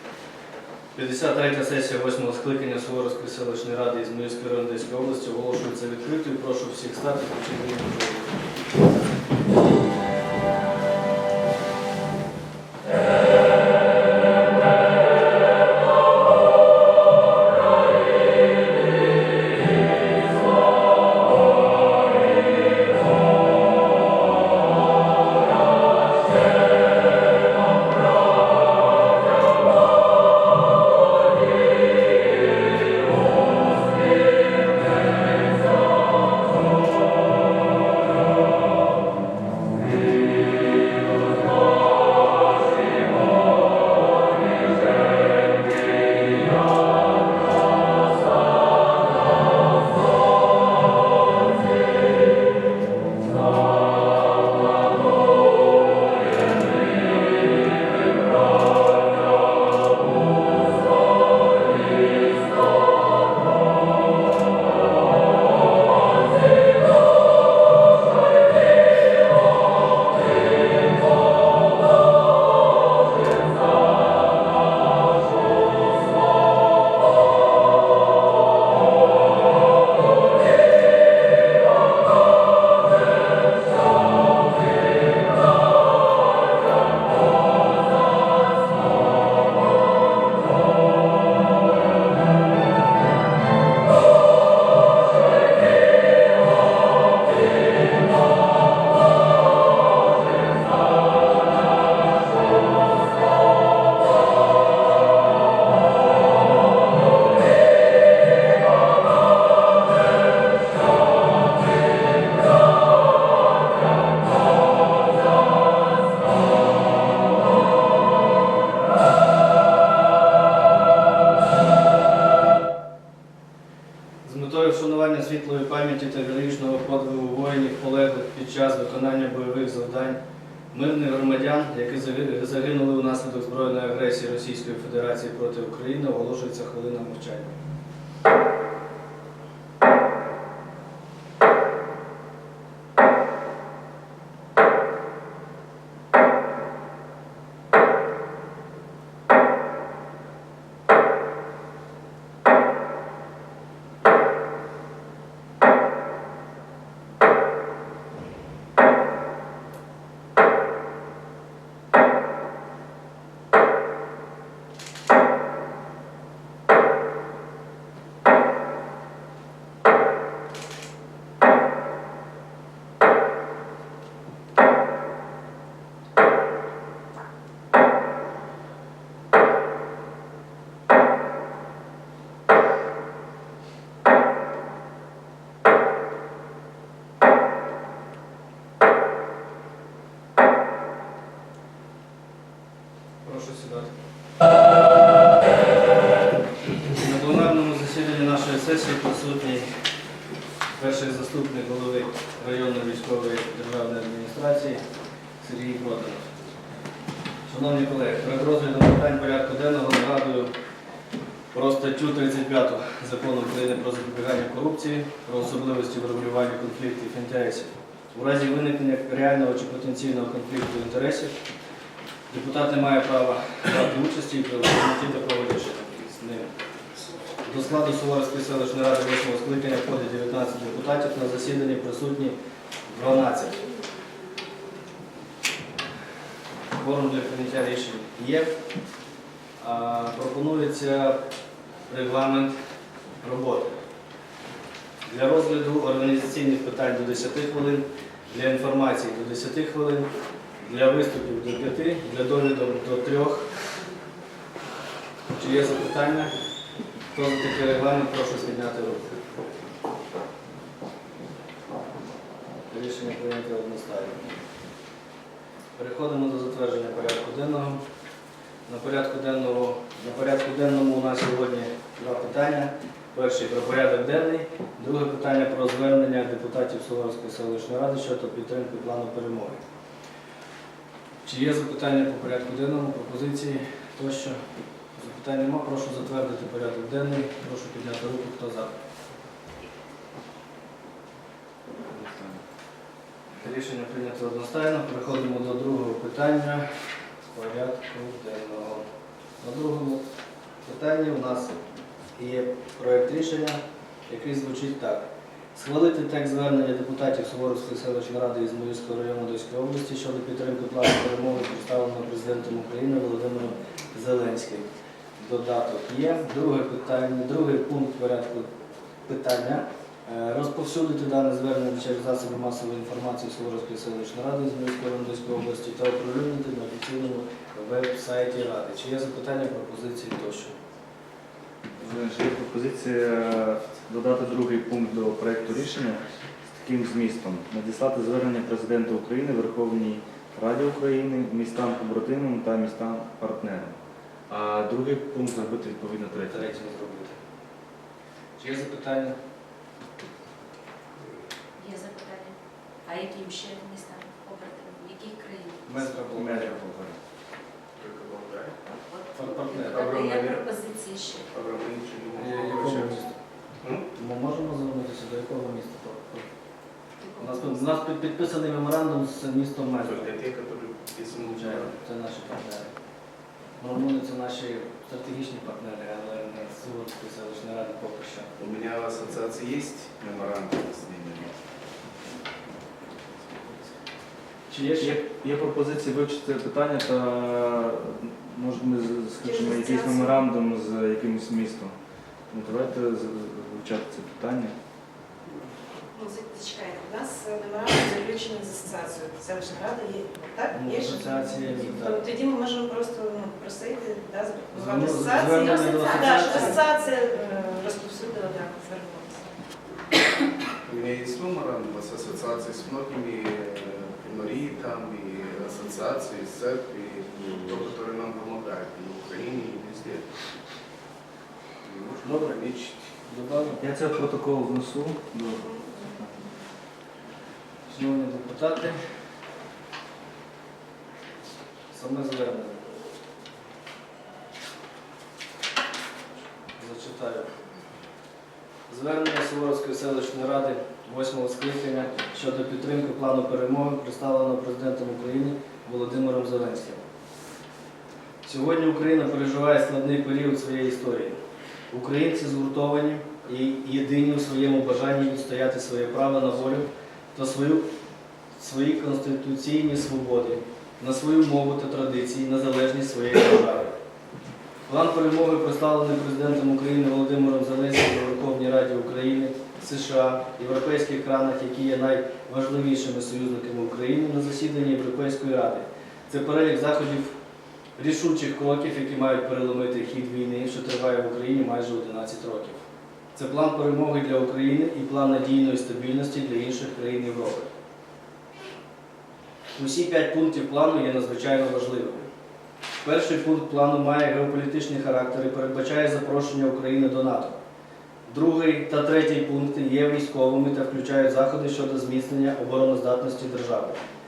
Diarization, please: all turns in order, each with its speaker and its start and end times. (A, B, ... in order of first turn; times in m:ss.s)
0:00.9-0:08.3 A
2:04.2-2:10.2 A
2:10.7-2:17.5 A
3:13.2-3:13.9 A
3:16.8-3:19.7 A
3:20.8-3:24.8 A
3:25.4-3:26.3 A
3:27.4-3:30.5 A
3:31.5-3:41.3 A
3:42.3-3:46.5 A
3:47.4-3:53.6 A
3:56.7-3:58.6 A
3:59.6-4:01.2 A
4:01.9-4:02.5 A
4:03.2-4:03.8 A
4:05.1-4:10.1 A
4:10.6-4:13.5 A
4:15.3-4:16.3 A
4:17.1-4:19.2 A
4:22.7-4:24.2 A
4:25.8-4:27.8 A
4:28.7-4:39.6 A
4:41.2-4:44.4 A
4:45.0-4:48.7 A
4:51.8-4:52.4 B
4:53.4-4:56.6 A
4:57.3-4:58.8 A
4:59.4-5:00.0 A
5:00.6-5:01.6 A
5:02.2-5:18.5 A
5:19.0-5:30.5 A
5:31.8-5:43.8 B
5:44.3-5:46.5 B
5:46.2-5:47.2 A
5:48.4-5:49.2 A
5:51.6-5:55.8 C
5:55.6-5:56.6 A
5:56.1-5:57.0 B
5:57.8-5:58.6 D
5:58.9-6:01.3 C
5:59.1-5:59.9 A
5:59.5-6:00.5 D
6:01.3-6:03.0 D
6:02.2-6:03.2 A
6:03.9-6:06.3 A
6:07.0-6:07.8 C
6:07.2-6:10.1 A
6:09.8-6:11.8 D
6:11.2-6:12.7 A
6:13.6-6:18.3 A
6:18.4-6:21.4 D
6:24.5-6:25.0 A
6:24.8-6:31.7 B
6:29.6-6:30.1 E
6:32.3-6:34.5 B
6:35.9-6:49.2 E
6:40.5-6:42.1 A
6:44.5-6:46.6 A
6:50.6-7:00.2 D
7:01.6-7:02.9 D
7:02.0-7:02.4 A
7:03.0-7:03.6 A
7:03.6-7:06.3 B
7:07.7-7:08.8 A
7:11.7-7:12.6 A
7:16.6-7:17.3 A
7:18.7-7:26.8 A
7:28.2-7:31.2 A
7:31.7-7:37.7 A
7:38.4-7:43.7 A
7:44.7-7:57.1 A
7:57.8-8:02.6 A
8:03.1-8:07.5 A
8:09.5-8:12.1 A
8:12.8-8:17.4 A
8:18.1-8:23.8 A